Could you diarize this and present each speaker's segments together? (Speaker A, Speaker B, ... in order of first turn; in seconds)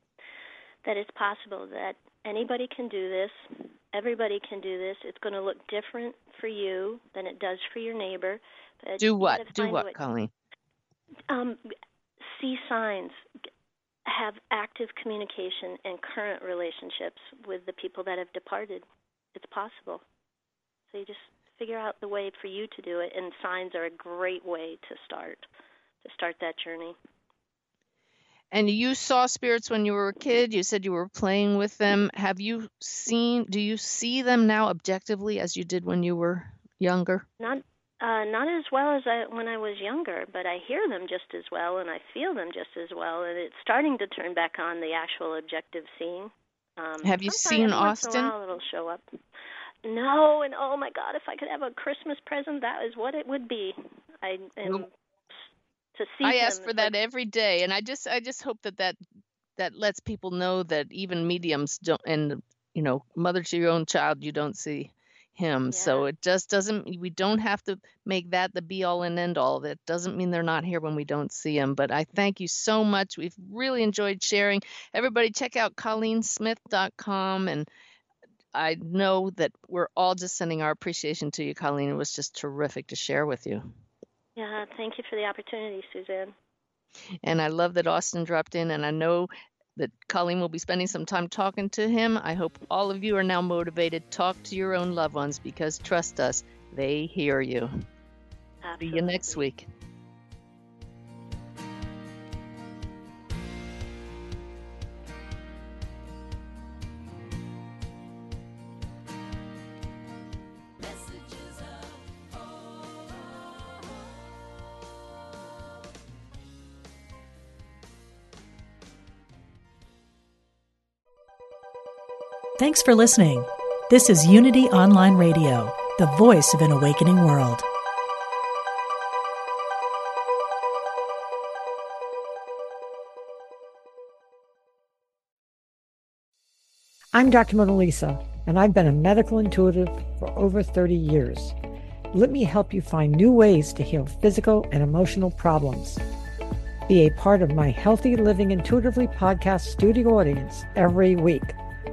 Speaker A: 0.8-9.9, 11.3-11.6, 12.2-13.2, 14.1-20.0, 20.9-25.5, 26.0-27.0, 37.4-49.0, 49.9-54.9, 56.0-56.9, 65.7-66.1, 84.4-86.3, 98.6-99.4
Speaker B: 9.0-10.3, 28.5-37.3, 47.0-48.3, 56.2-59.0, 59.6-77.7, 78.5-83.7, 87.2-97.9, 98.8-99.7
Speaker C: 122.6-127.7
Speaker D: 137.1-141.6, 142.1-146.0, 146.9-151.6